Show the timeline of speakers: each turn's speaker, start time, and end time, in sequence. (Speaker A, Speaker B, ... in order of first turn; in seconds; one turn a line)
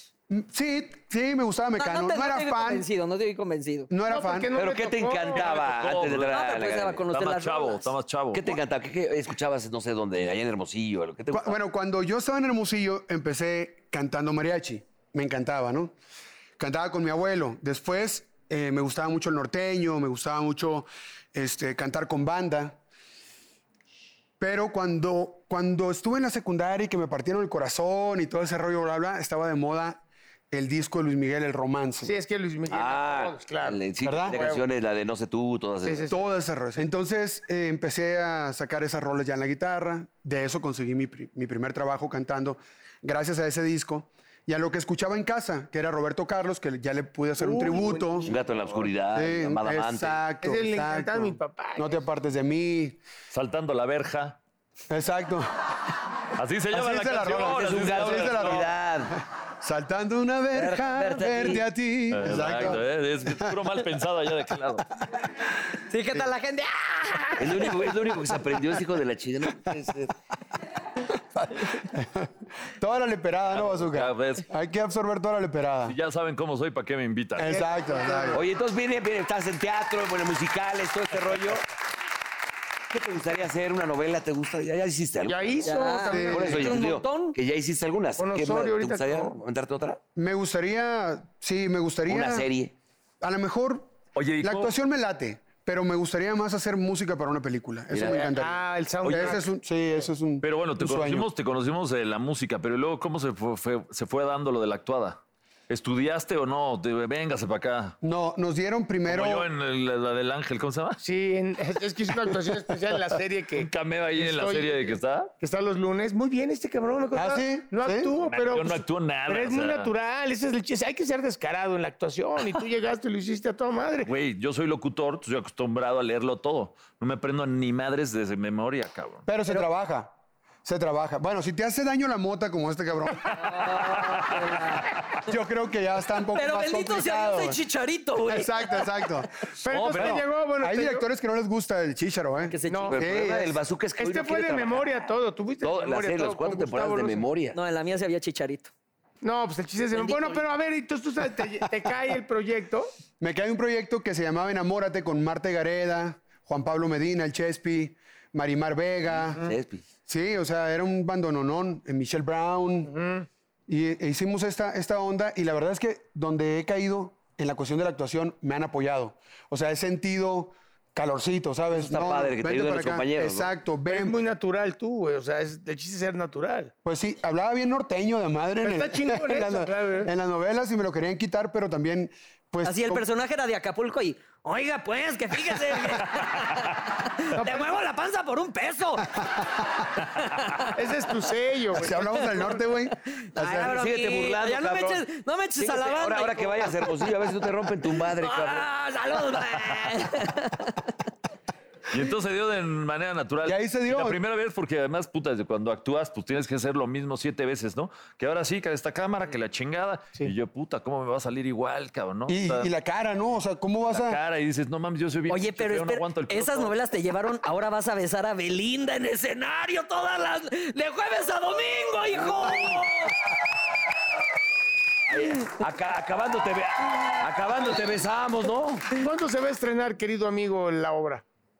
Speaker A: 0.3-2.9
Speaker B: 1.8-3.9
Speaker A: 3.9-4.5
Speaker C: 4.1-5.7
Speaker D: 4.5-7.0
Speaker E: 5.3-6.5
Speaker B: 6.3-7.9
Speaker E: 7.1-8.6
Speaker D: 8.3-11.6
Speaker A: 11.3-15.9
Speaker A: 16.6-22.8
Speaker A: 24.4-32.1
Speaker C: 32.0-34.6
Speaker D: 32.7-36.1
Speaker A: 34.0-34.4
Speaker C: 35.8-36.1
Speaker A: 36.1-48.3
Speaker C: 47.4-48.4
Speaker D: 48.2-50.2
Speaker A: 49.1-53.0
Speaker C: 50.4-52.0
Speaker E: 53.3-54.4
Speaker A: 54.9-55.5
Speaker E: 56.4-58.7
Speaker A: 56.7-63.5
Speaker D: 57.5-59.2
Speaker D: 60.5-61.6
Speaker E: 62.1-64.9
Speaker B: 65.9-67.8
Speaker D: 67.4-70.1
Speaker A: 71.1-76.0
Speaker E: 73.5-74.5
Speaker E: 75.8-77.6
Speaker A: 77.4-78.4
Speaker C: 77.5-78.4
Speaker D: 78.3-81.7
Speaker D: 82.9-85.7
Speaker C: 85.2-86.8
Speaker B: 85.6-87.3
Speaker A: 86.1-86.7
Speaker D: 86.3-90.0
Speaker C: 88.2-89.4
Speaker A: 90.2-92.5
Speaker D: 92.1-92.7
Speaker A: 93.2-101.3
Speaker E: 94.2-94.7
Speaker D: 97.9-98.3
Speaker C: 98.0-99.4
Speaker E: 99.0-99.4
Speaker E: 100.4-108.0
Speaker A: 108.0-109.5
Speaker E: 109.1-111.0
Speaker C: 111.0-124.1
Speaker E: 113.6-115.3
Speaker A: 117.1-118.1
Speaker E: 118.2-119.9
Speaker E: 124.0-129.3
Speaker A: 129.3-130.1
Speaker A: 130.6-133.4
Speaker B: 133.4-134.9
Speaker A: 135.2-137.6
Speaker B: 136.3-138.8
Speaker A: 138.2-139.3
Speaker C: 139.6-141.0
Speaker E: 139.7-140.2
Speaker A: 139.9-143.6
Speaker B: 142.4-142.9
Speaker C: 142.7-143.0
Speaker D: 142.9-144.9
Speaker C: 144.0-147.2
Speaker D: 145.6-147.6
Speaker B: 147.5-148.7
Speaker C: 149.2-152.9
Speaker B: 149.9-150.4
Speaker A: 153.2-159.5
Speaker D: 159.4-159.8
Speaker A: 160.1-162.9
Speaker C: 162.9-163.2
Speaker A: 163.7-174.2
Speaker D: 171.7-173.5
Speaker C: 173.8-176.7
Speaker A: 176.8-183.0
Speaker C: 178.6-180.1
Speaker B: 182.6-189.3
Speaker C: 187.3-187.7
Speaker B: 190.4-190.7
Speaker C: 190.7-192.3
Speaker A: 191.7-193.8
Speaker B: 193.2-197.0
Speaker D: 193.6-195.0
Speaker D: 195.6-198.7
Speaker B: 198.0-200.8
Speaker E: 201.9-212.7
Speaker A: 203.4-204.2
Speaker A: 212.3-214.2
Speaker E: 213.9-216.7
Speaker B: 215.3-223.2
Speaker D: 225.1-228.9
Speaker C: 228.9-231.2